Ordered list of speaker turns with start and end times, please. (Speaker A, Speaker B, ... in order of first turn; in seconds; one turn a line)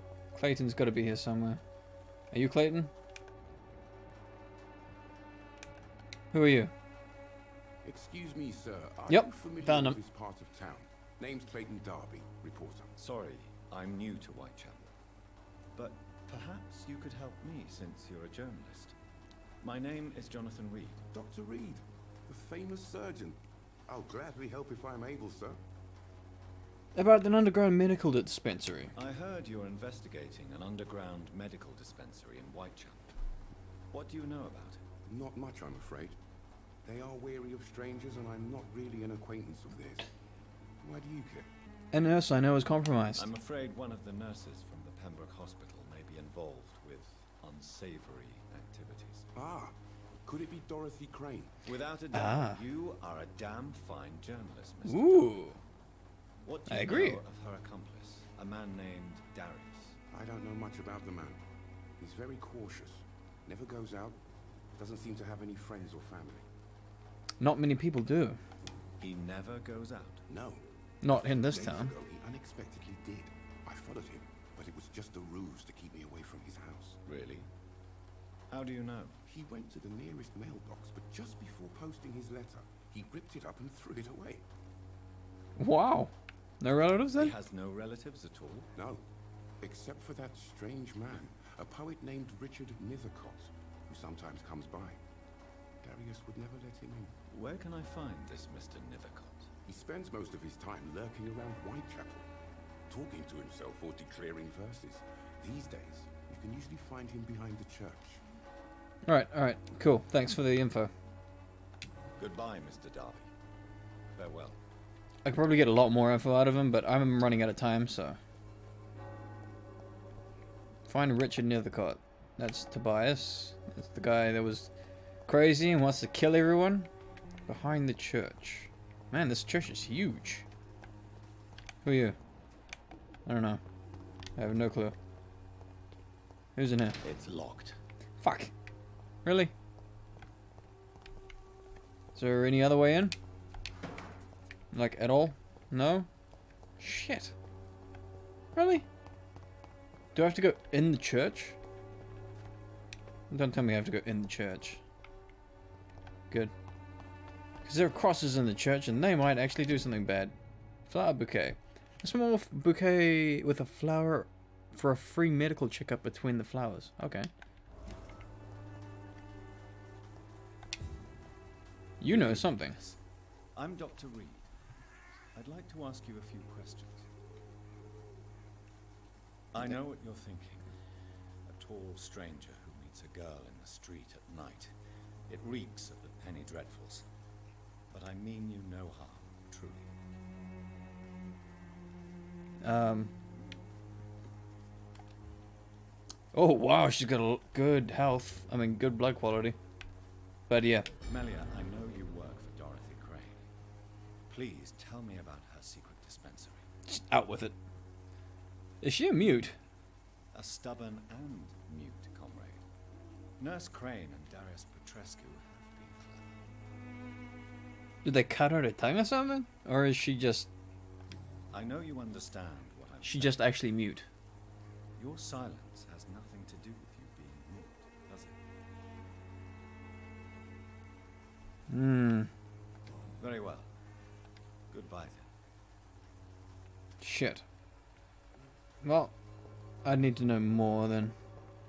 Speaker A: 0.3-1.6
Speaker A: 2.3-2.9
Speaker A: 6.3-6.7
Speaker B: 7.8-12.9
Speaker A: 9.1-10.0
Speaker C: 12.9-14.9
Speaker C: 15.7-18.9
Speaker C: 19.6-21.1
Speaker B: 21.1-25.6
Speaker A: 26.9-28.9
Speaker C: 28.9-33.1
Speaker C: 33.9-34.8
Speaker B: 35.0-36.2
Speaker B: 36.8-40.1
Speaker B: 40.8-41.5
Speaker A: 41.9-43.3
Speaker C: 43.1-49.3
Speaker B: 49.3-51.5
Speaker C: 51.6-55.2
Speaker A: 52.1-52.6
Speaker A: 54.9-55.6
Speaker C: 56.4-60.0
Speaker A: 56.7-57.2
Speaker B: 60.1-61.4
Speaker B: 62.0-64.2
Speaker B: 64.8-66.5
Speaker A: 67.4-68.4
Speaker C: 69.0-70.2
Speaker B: 70.3-77.0
Speaker A: 71.0-71.9
Speaker C: 77.0-77.5
Speaker C: 78.5-79.2
Speaker B: 79.2-84.4
Speaker A: 85.6-87.3
Speaker C: 87.1-88.7
Speaker B: 88.7-89.0
Speaker B: 89.6-95.0
Speaker B: 95.8-97.2
Speaker C: 97.3-99.5
Speaker B: 99.6-102.2
Speaker B: 102.9-108.2
Speaker A: 109.0-110.9
Speaker C: 112.2-113.3
Speaker C: 114.1-114.6
Speaker A: 115.2-118.2
Speaker A: 120.9-124.7
Speaker A: 125.3-126.9
Speaker A: 127.5-130.4
Speaker A: 131.8-132.2
Speaker A: 133.2-133.6
Speaker A: 134.3-134.9
Speaker A: 136.6-137.0
Speaker C: 137.0-137.8
Speaker A: 138.2-138.5
Speaker A: 139.2-139.5
Speaker A: 142.1-143.1
Speaker A: 144.7-146.1
Speaker A: 146.8-147.3
Speaker A: 148.5-148.8
Speaker A: 150.1-151.6
Speaker A: 153.3-154.8
Speaker A: 157.6-160.3
Speaker A: 160.9-167.3
Speaker A: 172.0-172.8
Speaker C: 172.1-173.0
Speaker C: 173.5-174.5
Speaker C: 175.3-177.1
Speaker C: 179.5-180.7
Speaker C: 181.4-184.7
Speaker C: 185.3-187.1
Speaker C: 187.9-189.9
Speaker A: 192.6-193.1
Speaker A: 196.3-199.6
Speaker A: 200.5-200.9
Speaker C: 200.9-203.4
Speaker C: 204.3-206.7
Speaker A: 206.9-207.5
Speaker A: 208.8-209.6
Speaker C: 210.3-212.6
Speaker C: 213.4-216.3
Speaker A: 218.0-220.5
Speaker C: 221.5-223.5
Speaker A: 223.0-224.1
Speaker C: 224.9-228.4
Speaker A: 231.7-232.3
Speaker C: 233.2-233.7
Speaker C: 234.7-235.3
Speaker A: 237.0-237.4
Speaker A: 238.8-239.1
Speaker A: 239.8-241.1